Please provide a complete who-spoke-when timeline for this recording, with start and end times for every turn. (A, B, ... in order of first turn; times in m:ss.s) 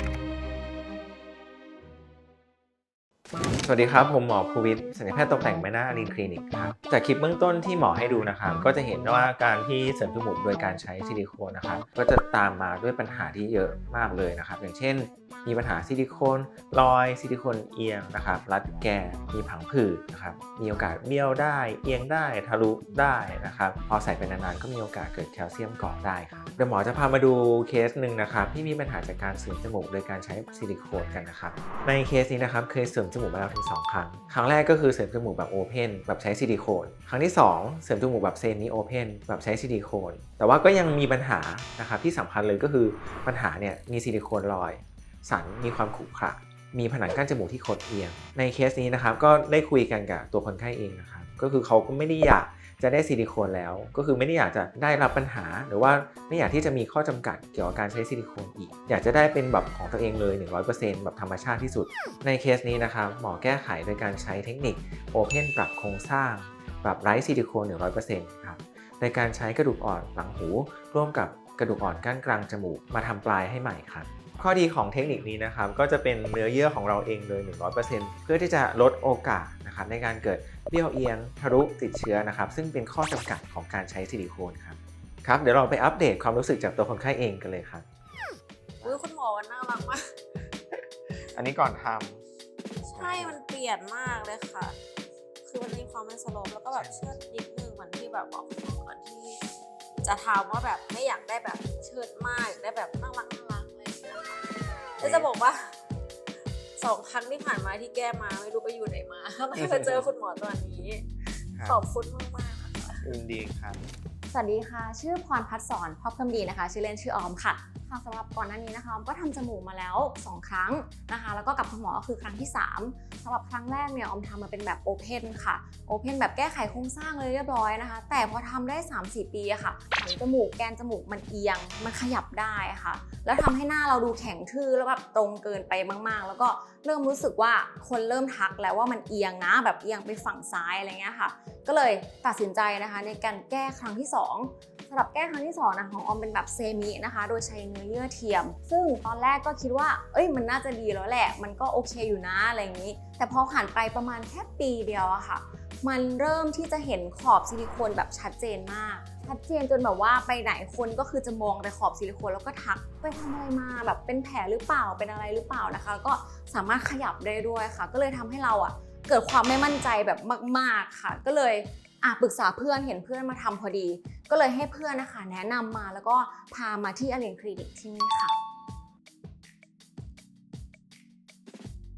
0:03.6-1:27.8 A
1:28.8-1:30.0 B
1:31.3-1:32.2 A
1:32.8-1:34.8 B
1:33.0-1:33.4 A
1:35.5-1:39.4 B
1:36.7-1:37.1 A
1:40.0-1:45.7 B
1:45.0-1:45.3 A
1:46.8-1:51.0 B
1:49.6-1:50.1 A
1:51.6-1:51.8 A
1:51.6-1:53.1 B
1:53.0-1:53.8 A
1:54.3-2:58.4 C